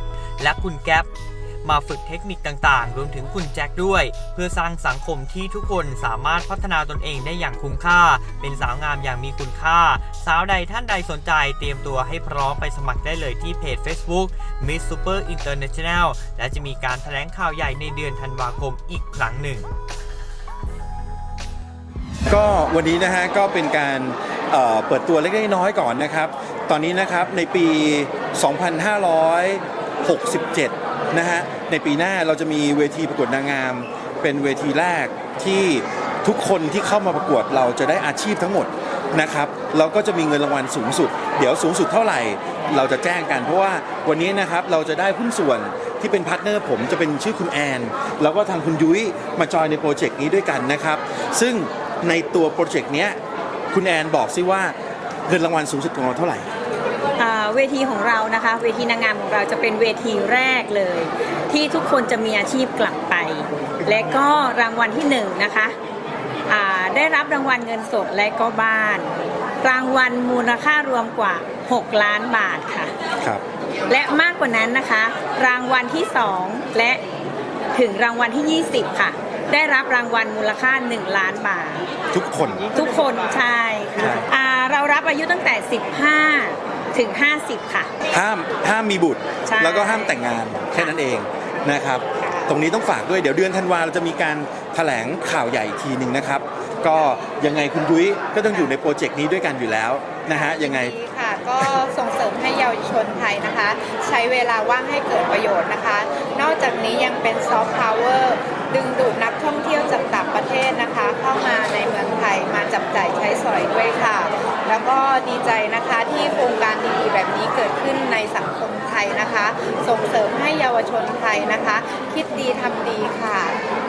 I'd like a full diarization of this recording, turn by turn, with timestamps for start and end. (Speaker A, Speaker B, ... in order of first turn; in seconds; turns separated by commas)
Speaker A: 0.4-1.1, Speaker A: 1.6-19.7, Speaker B: 22.3-53.2, Speaker B: 53.7-54.8, Speaker B: 55.3-56.5, Speaker C: 57.2-65.8, Speaker C: 66.5-72.9, Speaker C: 73.9-77.0, Speaker C: 77.7-81.8, Speaker B: 82.1-82.7, Speaker C: 82.7-87.9, Speaker B: 84.0-84.2, Speaker B: 88.1-100.9, Speaker C: 89.5-90.2, Speaker D: 100.3-123.6